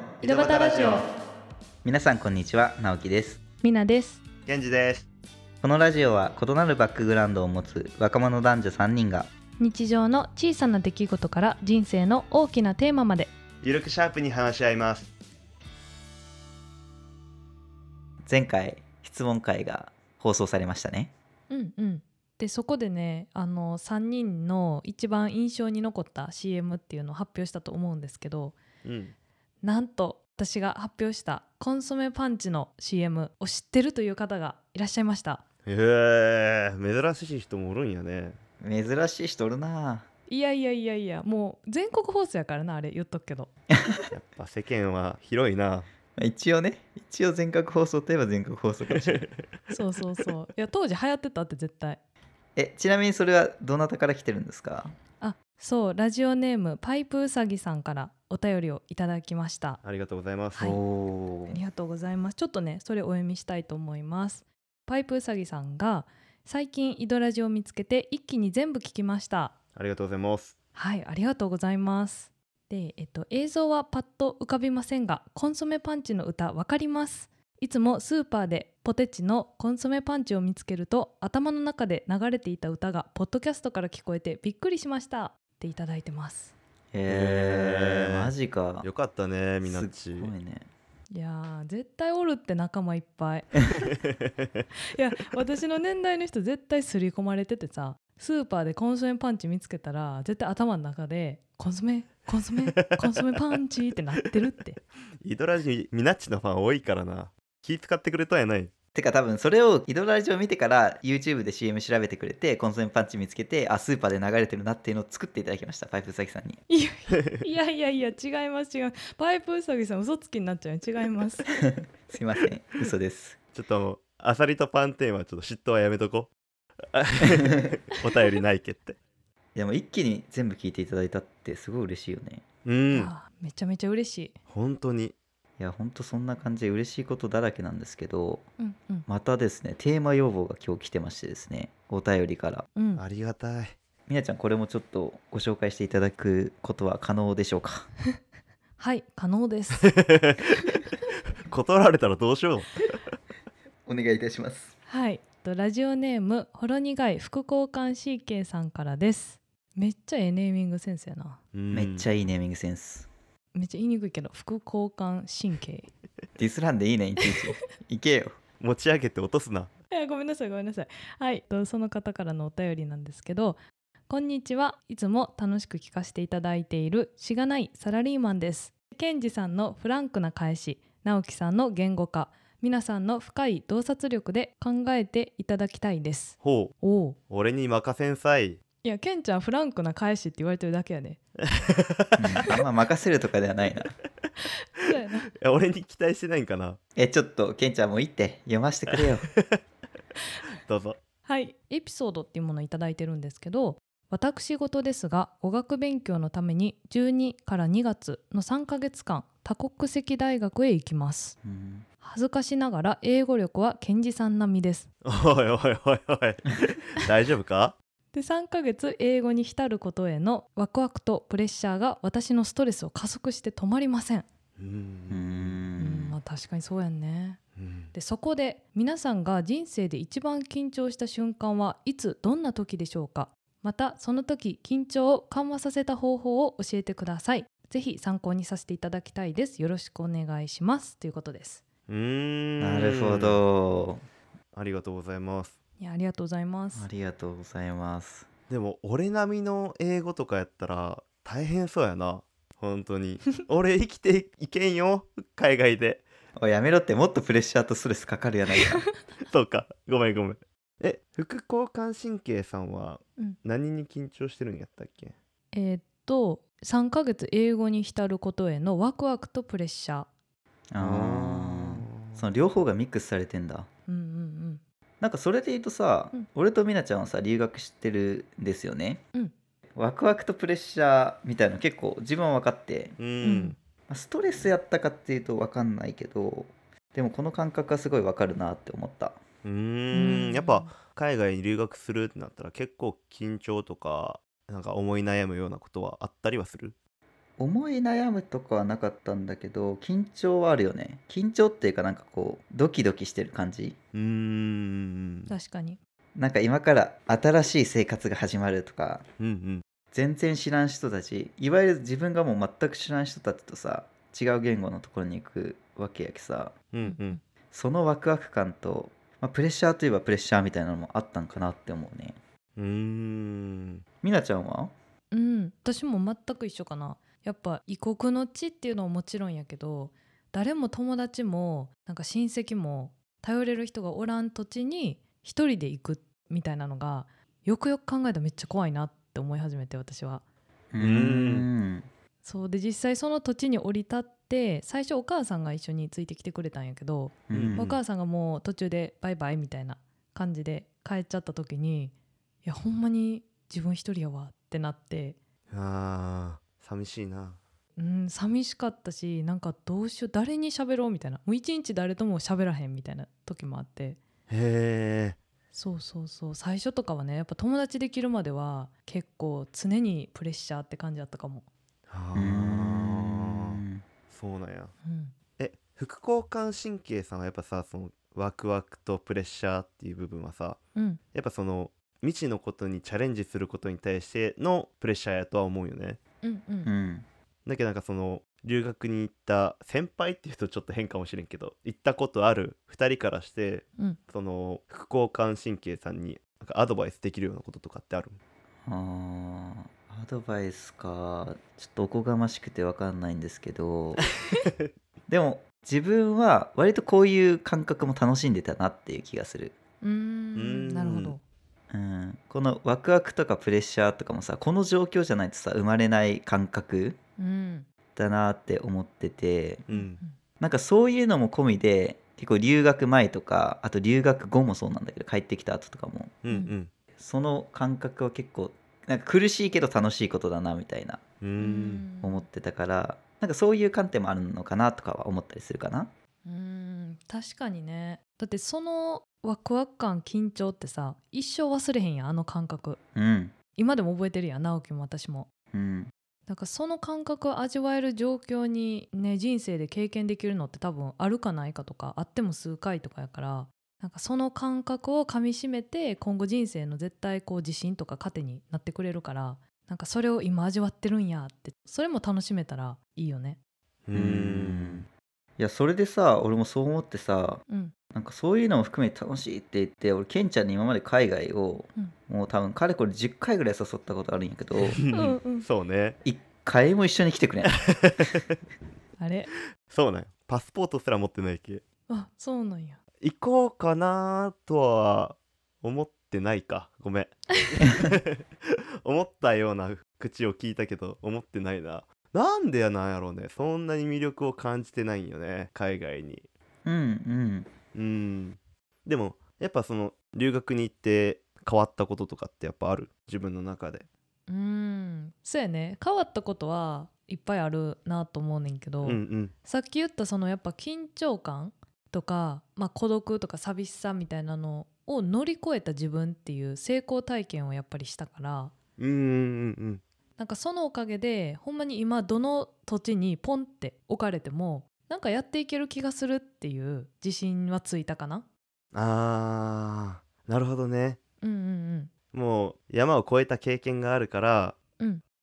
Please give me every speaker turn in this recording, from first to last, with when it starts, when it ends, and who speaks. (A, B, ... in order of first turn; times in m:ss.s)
0:00.2-0:01.0 A
0:00.2-0:01.0 B
0:01.8-0:03.4 C
0:03.6-0:04.2 B
0:04.4-0:05.1 A
0:05.6-0:09.3 C
0:09.6-0:13.3 B
0:13.6-0:15.1 A
0:18.2-0:21.1 C
0:21.5-0:28.6 B
0:28.8-0:29.1 A
0:29.6-0:35.4 B
0:35.6-0:38.4 A
0:38.6-0:40.0 C
0:40.3-0:43.5 B
0:43.7-0:44.0 C
0:44.1-0:45.9 A
0:46.2-0:49.2 C
0:49.0-0:49.3 A
0:49.7-0:52.0 B
0:52.6-0:54.9 C
0:55.2-0:59.8 B
0:59.8-1:00.8 A
1:00.6-1:01.6 C
1:01.5-1:09.5 B
1:09.7-1:10.6 A
1:10.7-1:26.5 B
1:26.9-1:28.9 C
1:27.0-1:28.3 A
1:28.8-1:30.3 A
1:29.6-1:30.7 C
1:31.1-1:33.9 B
1:34.0-1:34.6 A
1:34.9-1:44.8 B
1:42.8-1:43.2 A
1:45.2-1:48.7 A
1:48.9-1:56.6 C
1:56.7-2:01.5 B
2:01.6-2:03.4 C
2:03.5-2:06.3 A
2:06.9-2:09.0 A
2:09.5-2:12.4 C
2:12.6-2:13.1 A
2:12.9-2:14.4 B
2:14.5-2:15.1 A
2:15.6-2:18.4 C
2:18.6-2:19.1 B
2:19.1-2:22.7 C
2:22.8-2:23.0 B
2:23.0-2:23.8 A
2:24.1-2:27.9 C
2:28.8-2:29.9 B
2:29.8-2:30.5 A
2:31.5-2:32.7 A
2:33.8-2:34.7 C
2:34.9-2:41.4 B
2:41.5-2:42.1 A
2:41.7-2:43.1 C
2:43.5-2:45.9 B
2:46.4-2:48.4 C
2:48.6-2:49.7 A
2:49.9-3:07.2 B
3:06.4-3:06.7 A
3:07.3-3:08.6 A
3:08.8-3:11.2 B
3:11.4-3:12.2 A
3:12.2-3:13.9 C
3:14.7-3:15.3 B
3:15.3-3:16.8 A
3:17.0-3:19.2 C
3:19.0-3:19.6 A
3:20.5-3:21.0 A
3:21.2-3:31.4 B
3:31.4-3:31.8 C
3:32.0-3:34.9 B
3:35.0-3:37.7 A
3:38.1-3:44.2 B
3:44.6-3:45.6 A
3:45.1-3:46.2 C
3:45.8-3:47.4 B
3:47.6-3:47.9 A
3:47.9-4:01.6 B
4:01.9-4:03.4 A
4:02.6-4:04.0 C
4:04.5-4:05.6 A
4:05.8-4:06.9 B
4:06.7-4:08.3 C
4:08.5-4:16.0 A
4:16.4-4:18.8 C
4:19.3-4:25.1 A
4:25.5-4:30.1 B
4:30.7-4:33.7 C
4:30.8-4:32.2 A
4:33.9-4:34.6 B
4:35.0-4:39.0 C
4:39.8-4:43.0 C
4:43.0-4:43.6 A
4:43.2-4:43.6 B
4:43.9-4:49.2 C
4:49.4-4:56.7 A
4:49.9-4:50.7 B
4:57.4-5:03.8 C
5:03.9-5:05.3 A
5:05.3-5:05.8 B
5:06.2-5:09.0 C
5:09.2-5:09.6 A
5:09.9-5:16.5 C
5:16.7-5:17.2 A
5:16.8-5:17.2 B
5:17.5-5:22.2 C
5:22.6-5:23.8 A
5:24.0-5:24.7 C
5:25.1-5:40.2 B
5:40.7-5:41.9 C
5:40.8-5:41.5 A
5:42.2-5:51.9 B
5:47.3-5:47.6 C
5:47.3-5:47.8 A
5:52.4-5:55.2 B
5:55.5-5:57.4 A
5:57.8-6:04.0 B
6:04.3-6:05.2 A
6:05.5-6:11.5 B
6:11.9-6:14.7 A
6:12.1-6:13.8 C
6:14.8-6:15.1 B
6:15.4-6:20.6 A
6:20.7-6:21.0 B
6:21.1-6:26.0 A
6:26.2-6:26.7 B
6:26.6-6:27.0 C
6:27.4-6:38.2 A
6:38.6-6:44.0 C
6:44.4-6:44.7 A
6:45.1-6:49.6 C
6:49.8-6:51.2 B
6:50.3-6:51.2 A
6:51.7-6:57.0 C
6:57.2-6:57.7 B
6:57.9-6:59.6 C
6:59.7-7:00.0 A
6:59.7-7:00.1 B
7:00.4-7:06.2 C
7:06.2-7:06.7 A
7:07.0-7:11.0 C
7:11.2-7:11.8 A
7:11.4-7:12.2 B
7:12.0-7:15.9 C
7:16.2-7:22.8 B
7:22.9-7:23.3 C
7:23.6-7:25.3 B
7:25.5-7:25.9 C
7:26.3-7:43.4 B
7:43.9-7:44.8 A
7:43.9-7:44.9 C
7:45.4-7:47.4 C
7:47.5-7:47.7 B
7:47.9-7:54.8 C
7:54.7-7:56.0 A
7:54.9-7:55.4 B
7:56.0-7:57.6 C
7:57.5-7:58.3 A
7:59.0-7:59.3 B
7:59.7-8:01.6 A
8:01.9-8:02.8 B
8:03.0-8:16.3 A
8:16.6-8:17.5 C
8:17.7-8:23.8 A
8:24.3-8:38.5 B
8:28.8-8:29.3 A
8:38.8-8:39.8 A
8:40.2-8:48.2 B
8:48.7-8:51.0 A
8:51.2-8:51.9 B
8:52.1-8:54.6 A